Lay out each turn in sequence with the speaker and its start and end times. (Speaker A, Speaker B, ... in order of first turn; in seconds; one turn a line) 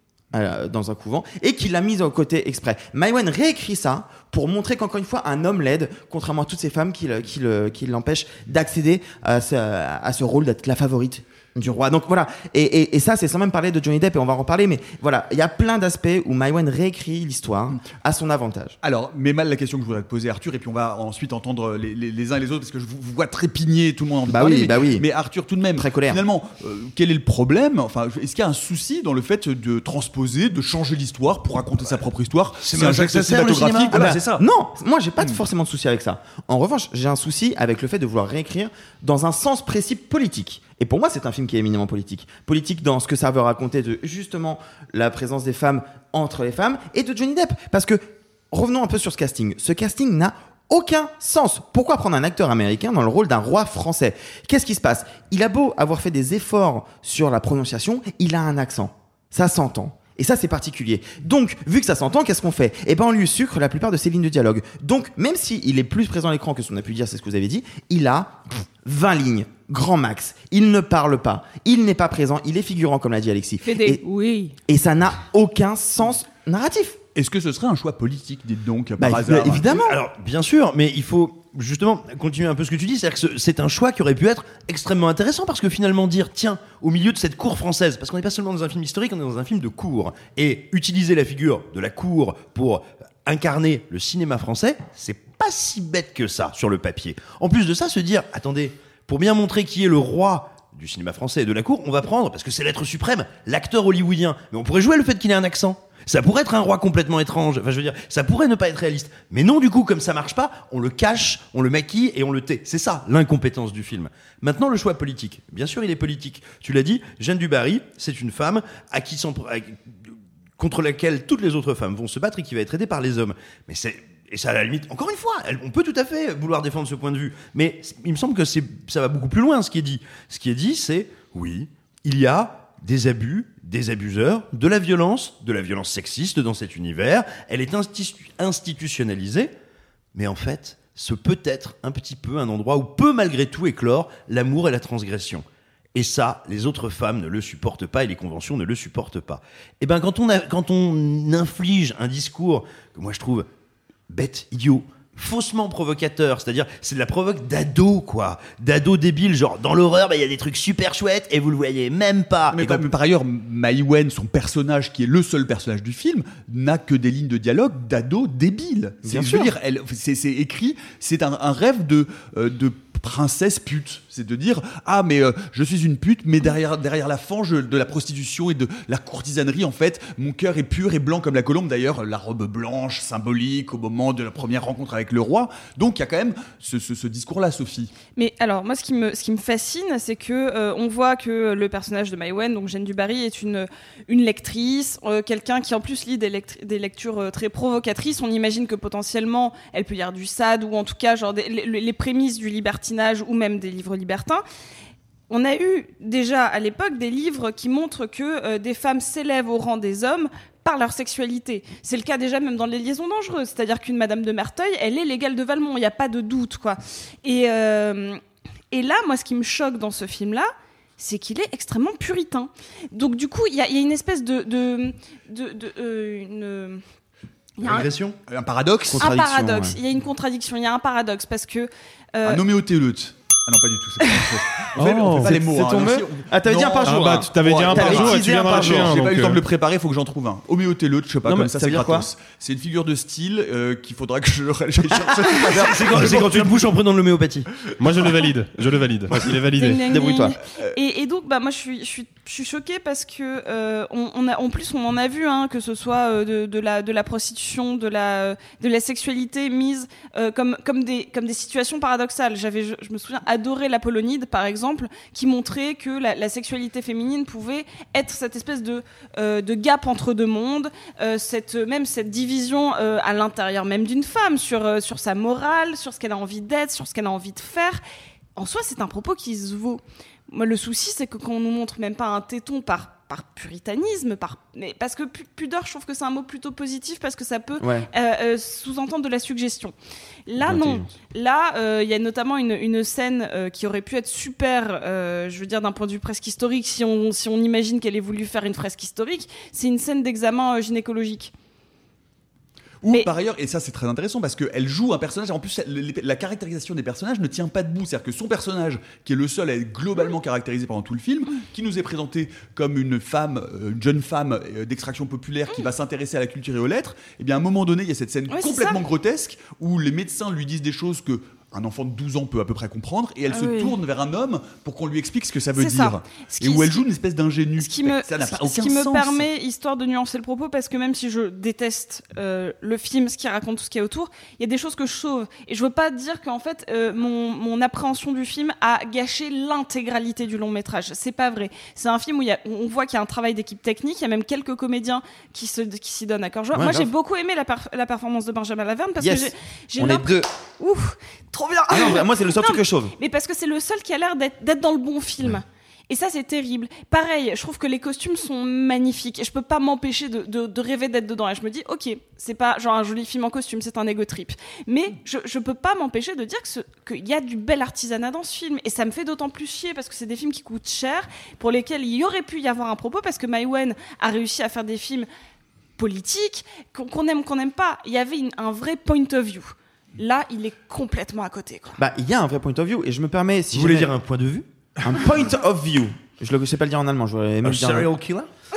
Speaker A: 0.3-18.8
Speaker B: 18.8-34.4
Speaker A: 24.3-25.1
Speaker A: 25.8-26.2
Speaker C: 32.6-34.3
Speaker A: 33.9-74.0
Speaker D: 73.6-74.6
Speaker A: 74.7-77.0
Speaker B: 77.2-79.8
Speaker A: 79.0-80.0
Speaker C: 79.3-120.0
Speaker C: 120.6-139.5
Speaker C: 140.1-153.5
Speaker C: 154.1-162.8
Speaker B: 162.5-187.9
Speaker A: 169.0-169.5
Speaker D: 188.2-204.4
Speaker D: 205.3-226.8
Speaker D: 227.6-227.9
Speaker C: 227.6-228.2
Speaker B: 228.3-229.1
Speaker A: 228.9-229.8
Speaker D: 229.0-232.4
Speaker B: 232.2-246.7
Speaker E: 234.8-235.3
Speaker A: 235.1-239.0
Speaker E: 236.8-239.4
Speaker A: 241.5-242.1
Speaker C: 245.4-247.5
Speaker E: 247.8-249.8
Speaker D: 249.6-277.8
Speaker A: 249.9-250.4
Speaker D: 278.4-289.8
Speaker A: 287.6-287.9
Speaker D: 290.3-301.3
Speaker B: 302.8-329.3
Speaker D: 318.3-318.8
Speaker D: 323.3-323.8
Speaker D: 325.6-326.9
Speaker D: 327.6-375.1
Speaker A: 346.5-346.9
Speaker A: 349.0-350.3
Speaker A: 351.7-352.9
Speaker D: 375.8-381.8
Speaker A: 381.8-384.0
Speaker C: 383.5-384.5
Speaker A: 384.8-387.9
Speaker C: 387.4-388.3